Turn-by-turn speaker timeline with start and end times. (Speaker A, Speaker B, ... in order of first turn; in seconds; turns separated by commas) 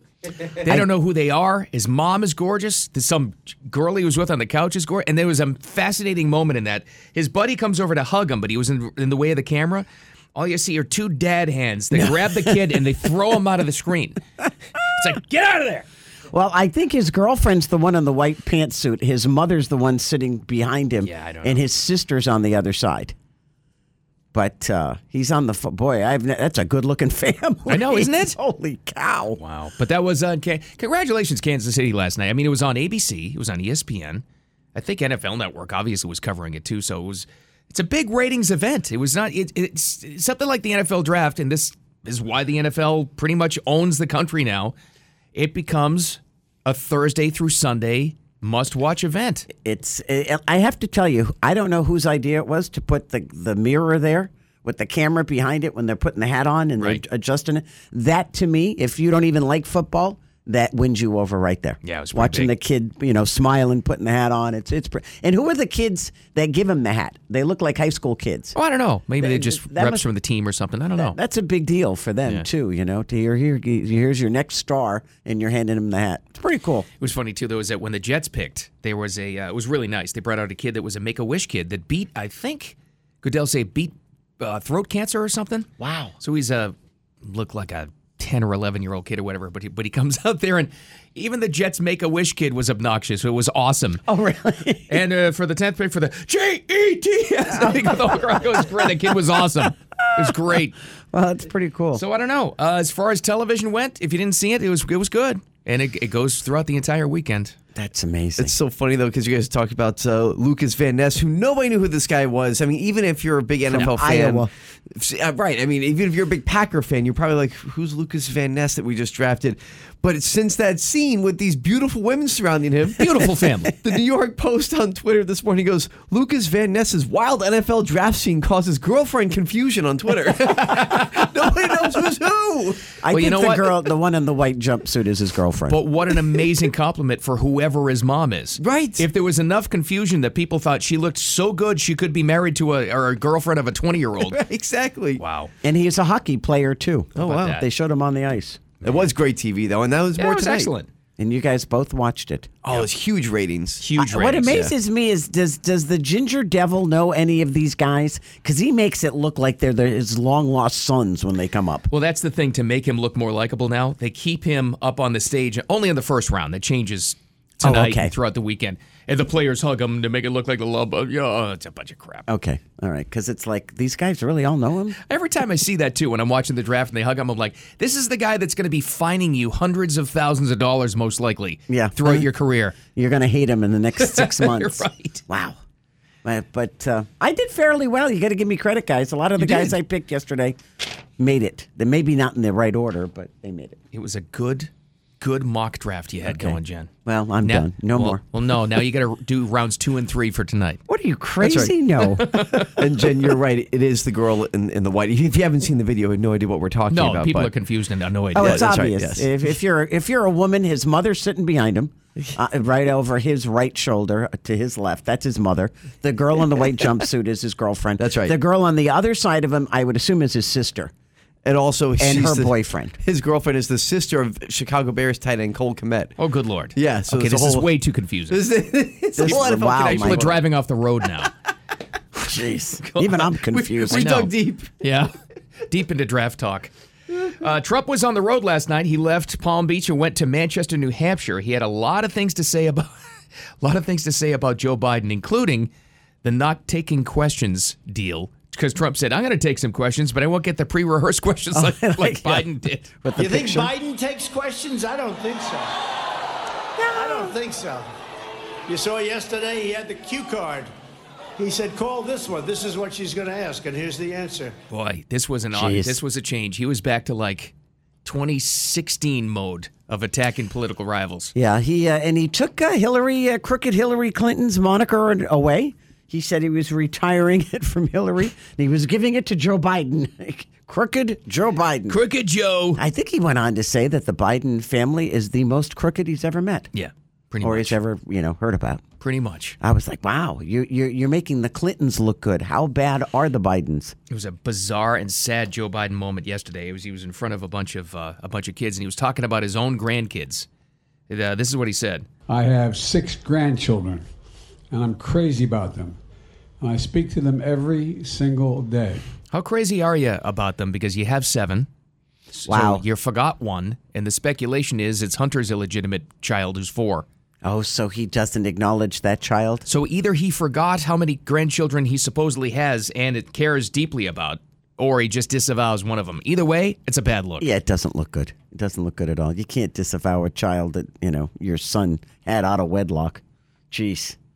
Speaker A: 0.5-14.2, Speaker B: 0.6-0.9, Speaker B: 11.9-12.8, Speaker A: 14.8-15.8, Speaker B: 16.3-23.1, Speaker A: 21.0-21.6, Speaker B: 24.3-29.4, Speaker A: 27.7-28.4, Speaker A: 29.4-44.7, Speaker A: 45.3-49.5, Speaker B: 49.5-68.5, Speaker A: 61.8-62.5, Speaker A: 68.5-71.2, Speaker B: 69.2-70.0, Speaker B: 71.0-76.9, Speaker A: 77.0-85.7, Speaker B: 85.8-86.1, Speaker A: 86.2-94.0, Speaker B: 94.1-95.0, Speaker A: 94.9-100.8, Speaker B: 97.6-98.1, Speaker B: 100.2-100.5, Speaker B: 101.1-102.0, Speaker A: 101.9-107.5, Speaker B: 107.7-108.5, Speaker C: 108.4-132.8, Speaker B: 113.7-114.5, Speaker A: 123.0-123.7, Speaker A: 130.4-131.3, Speaker B: 133.0-135.8, Speaker A: 133.1-133.7, Speaker A: 135.7-144.4, Speaker C: 138.6-139.0, Speaker C: 144.2-145.2, Speaker A: 145.2-145.5, Speaker B: 145.6-148.7, Speaker C: 147.2-147.6, Speaker A: 147.2-147.6, Speaker C: 148.8-150.7, Speaker A: 150.2-150.9, Speaker B: 151.2-152.5, Speaker C: 152.7-153.8, Speaker A: 153.8-154.6, Speaker B: 154.0-161.9, Speaker C: 154.4-154.7, Speaker A: 161.9-172.2, Speaker B: 167.6-168.1, Speaker B: 172.3-175.0, Speaker A: 175.0-182.8, Speaker B: 181.7-182.3, Speaker B: 182.9-185.6, Speaker A: 184.0-185.2, Speaker B: 186.2-190.6, Speaker A: 189.4-189.7, Speaker B: 191.2-193.8, Speaker A: 193.9-196.9, Speaker B: 196.2-198.2, Speaker A: 197.4-200.8, Speaker B: 200.9-202.7, Speaker C: 201.4-201.7, Speaker A: 202.1-202.7, Speaker C: 202.7-207.5, Speaker A: 206.9-208.7, Speaker B: 208.3-220.9, Speaker C: 208.3-209.3, Speaker C: 218.0-218.3, Speaker C: 221.4-226.2, Speaker B: 222.0-222.9, Speaker A: 226.2-228.5, Speaker C: 226.7-227.7, Speaker C: 228.3-230.4, Speaker B: 229.2-230.3, Speaker A: 229.2-231.3, Speaker B: 232.2-234.2, Speaker C: 233.5-234.7, Speaker A: 233.9-235.1, Speaker A: 235.7-236.7, Speaker A: 237.3-242.9, Speaker A: 243.6-245.7, Speaker A: 246.2-252.9, Speaker B: 251.5-253.7, Speaker D: 253.2-255.8, Speaker B: 256.8-257.3, Speaker D: 256.9-257.9, Speaker D: 258.7-260.7, Speaker D: 261.4-264.5, Speaker A: 264.7-267.5, Speaker B: 265.5-266.0, Speaker A: 268.0-271.3, Speaker B: 271.3-282.0, Speaker A: 281.9-282.8, Speaker B: 282.8-286.7, Speaker A: 286.7-287.8, Speaker B: 287.4-288.8, Speaker A: 289.0-289.6, Speaker B: 289.6-293.9, Speaker A: 294.1-300.5, Speaker A: 301.1-302.1, Speaker E: 302.3-304.0, Speaker E: 304.7-306.0, Speaker E: 306.6-309.0, Speaker A: 309.3-311.7, Speaker A: 312.3-317.1, Speaker B: 312.5-312.8, Speaker B: 317.4-319.6, Speaker A: 319.6-327.5, Speaker B: 327.4-334.2